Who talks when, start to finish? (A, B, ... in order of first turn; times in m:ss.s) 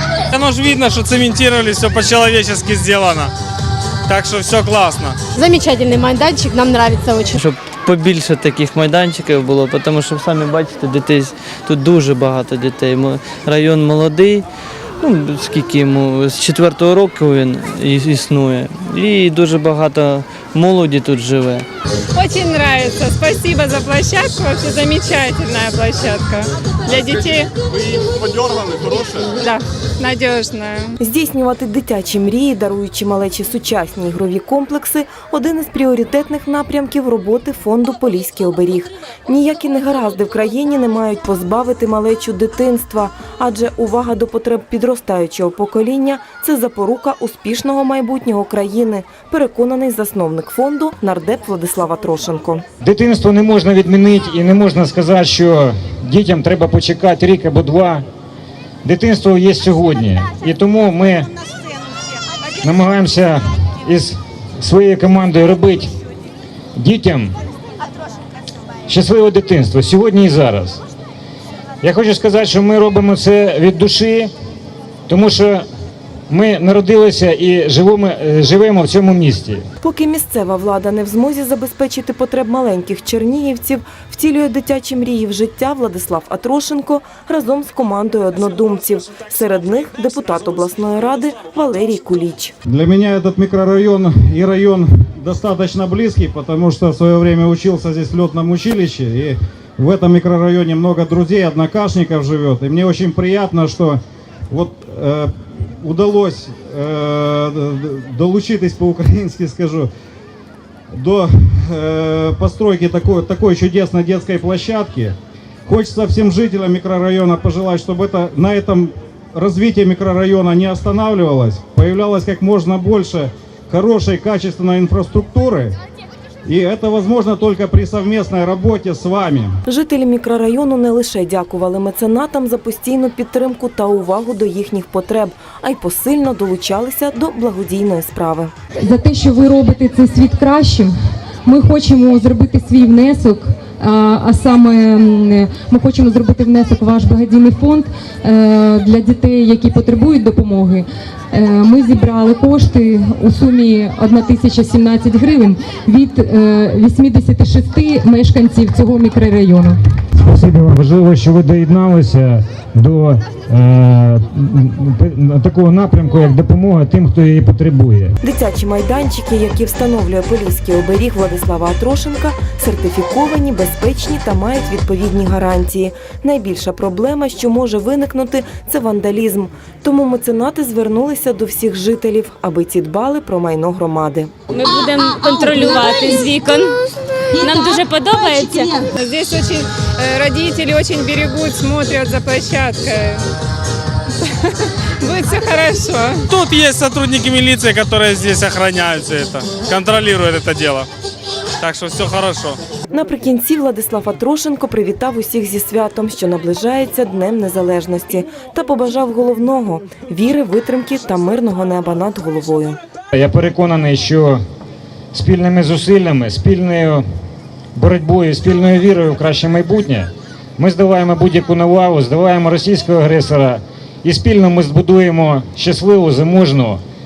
0:00.3-0:03.3 A
0:04.1-0:05.2 A
0:05.4-0:07.4 B
0:07.4-0:14.5 C
0:15.0-0:21.7 C
0:22.2-0:27.5 D
0:28.2-0:29.2 A
0:29.4-0:30.9 D
0:31.0-0:52.6 E
0:52.8-0:58.0 F
0:58.8-1:01.3 F
1:02.6-1:05.9 F
1:06.8-1:07.4 F
1:08.9-1:10.8 F
1:11.8-1:14.3 F
1:15.1-1:15.7 F
1:16.3-1:19.7 F
1:19.8-1:32.5 E
1:32.7-1:49.9 G
1:50.9-2:05.8 G
2:06.5-2:09.6 G
2:09.7-2:18.5 E
2:18.8-2:20.9 H
2:21.4-2:39.8 H
2:40.2-2:48.2 F
2:48.2-3:04.3 E
3:04.5-3:06.8 I
3:07.4-3:08.9 I
3:08.9-3:13.2 D
3:15.0-3:16.2 D
3:16.3-3:20.9 A
3:21.6-3:22.6 A
3:22.9-3:32.8 E
3:33.1-3:34.4 F
3:35.1-3:37.0 F
3:37.8-3:46.8 F